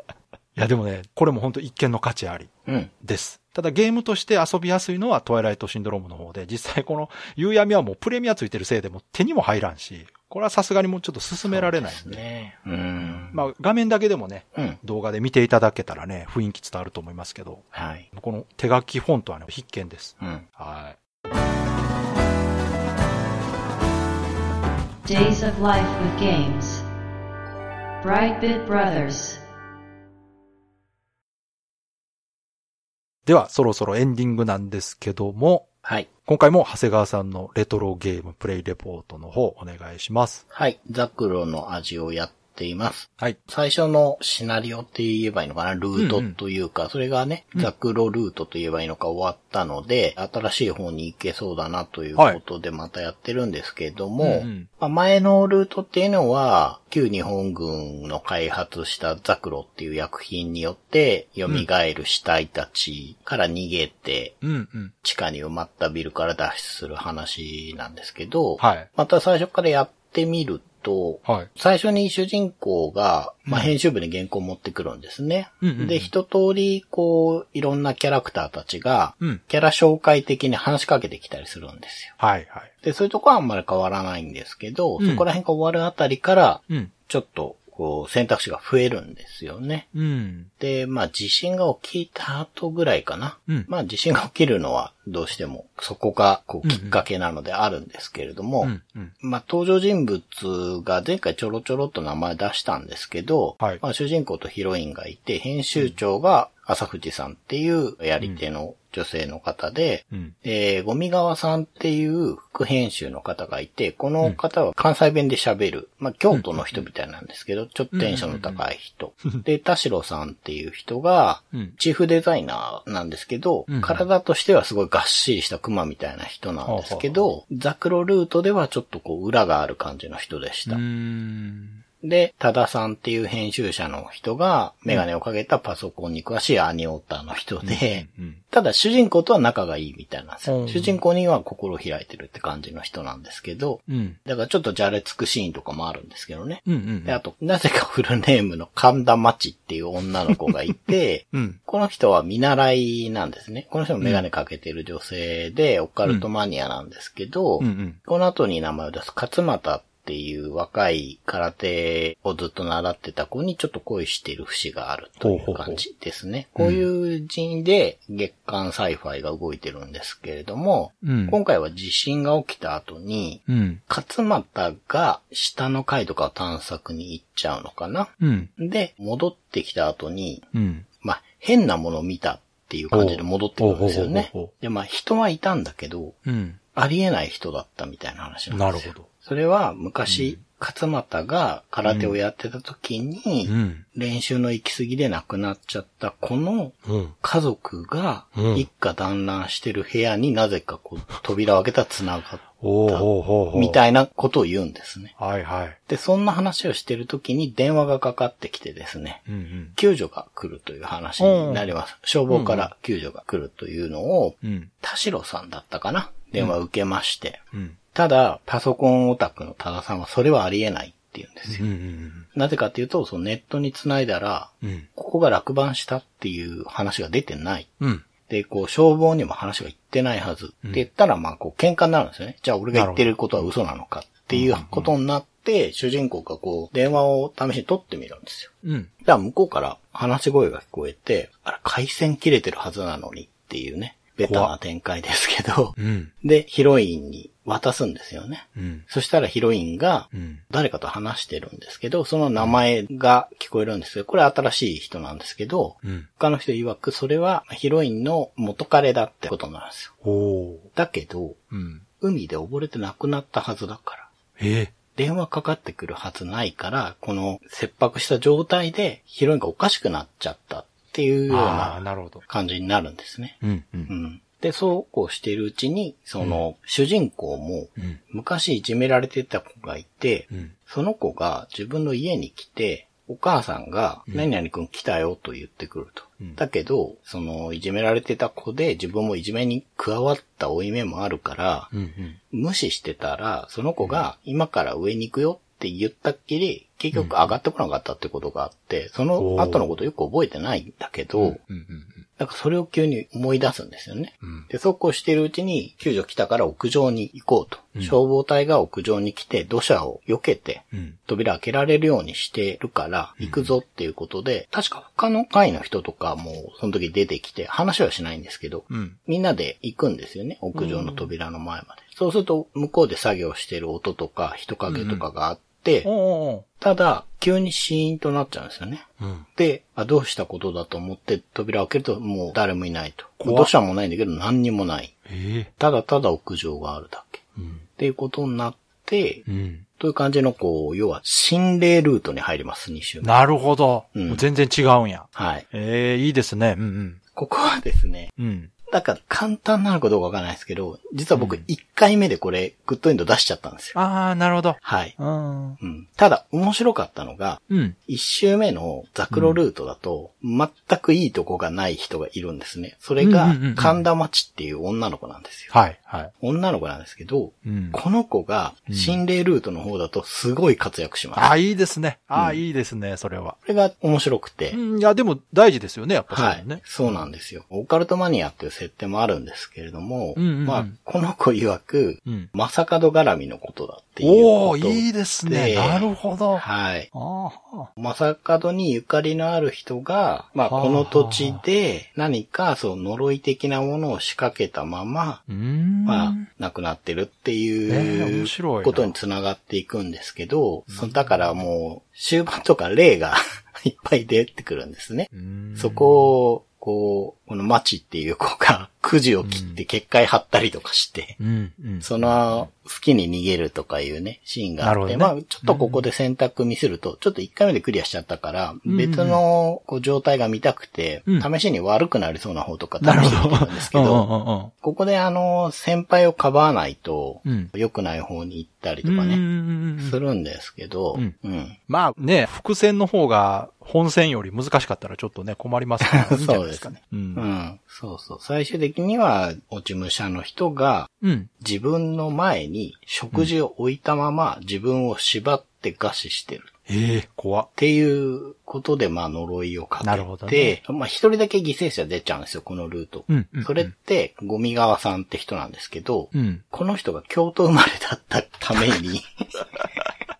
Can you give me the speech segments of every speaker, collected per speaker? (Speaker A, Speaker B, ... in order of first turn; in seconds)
Speaker A: 0.5-2.5, 3.0-12.2, 13.0-21.0, 33.2-35.7, 36.2-40.4, 46.0-46.4, 54.2-54.7, 64.4-64.9, 68.6-68.9, 75.6-76.1, 82.2-82.7, 85.0-85.2, 89.9-90.5, 96.6-97.0, 98.6-99.1, 116.3-116.8, 117.9-118.6, 123.7-124.0, 126.6-127.3, 130.7-131.8, 137.6-138.4, 140.4-141.0, 143.9-144.2, 146.7-147.2, 151.3-151.6, 157.6-158.0, 165.2-165.8, 166.6-166.8, 171.0-171.4, 173.5-173.8, 178.2-178.5, 180.5-180.8, 182.9-184.5, 186.2-186.6, 188.5-189.1, 190.1-190.4, 191.8-192.2, 193.4-193.8, 196.8-197.1, 198.3-198.7, 202.6-203.8, 205.2-205.8, 209.3-209.8, 211.2-211.7, 212.3-212.7, 214.4-214.7, 221.5-222.3, 224.6-224.9, 227.8-228.1, 232.7-233.5, 234.3-234.9, 238.6-238.9, 244.2-244.5, 245.8-246.1, 248.5-248.8, 250.1-250.4, 255.8-256.1, 260.0-260.7, 261.5-261.8, 264.4-264.7, 271.3-272.2, 273.4-273.9, 291.7-292.2, 296.9-297.3, 299.2-299.7, 301.2-302.1, 304.2-304.5, 310.7-311.0, 313.2-313.5, 318.7-319.0, 320.5-321.1, 324.7-325.1, 325.8-326.4, 329.0-329.2, 333.2-333.5, 335.1-335.5, 337.4-337.6, 339.2-339.6, 343.0-347.0, 348.2-348.5, 351.1-351.4, 353.7-355.6, 357.5-357.8, 359.1-359.4, 363.0-363.8, 365.5-366.1, 367.4-367.8, 368.7-369.0, 371.1-373.4, 374.5-377.0, 380.1-380.7, 382.1-382.3, 384.0-387.7, 390.4-391.4, 395.3-396.2, 397.7-398.9, 400.7-401.4, 405.1-406.1, 409.2-409.6, 411.2-412.5, 414.6-415.8, 418.6-419.2, 422.8-424.5, 427.2-427.5, 428.8-430.0, 431.7-437.2, 441.0-441.3, 446.7-447.5, 449.8-450.6, 453.1-453.7, 456.1-456.4
Speaker B: 2.6-2.9, 11.4-13.4, 14.5-14.8, 17.7-18.1, 20.2-20.5, 40.5-64.4, 65.0-82.1, 82.8-89.9, 90.6-130.8, 132.0-180.5, 181.0-186.2, 186.7-205.1, 205.9-221.6, 222.3-227.7, 228.2-259.9, 260.7-261.4, 262.0-264.1, 264.9-291.7, 292.3-301.4, 302.2-325.9, 326.6-334.9, 335.6-337.2, 337.8-339.2, 339.8-343.2, 343.9-344.2, 345.1-345.4, 347.1-348.1, 348.7-353.8, 354.6-354.9, 355.6-365.5, 366.2-371.3, 372.1-372.4, 373.4-374.6, 376.1-386.9, 387.8-395.2, 395.8-411.2, 411.8-424.1, 424.6-429.2, 429.8-431.6, 435.8-446.5, 447.6-459.4
Speaker C: 25.0-26.8, 28.0-29.4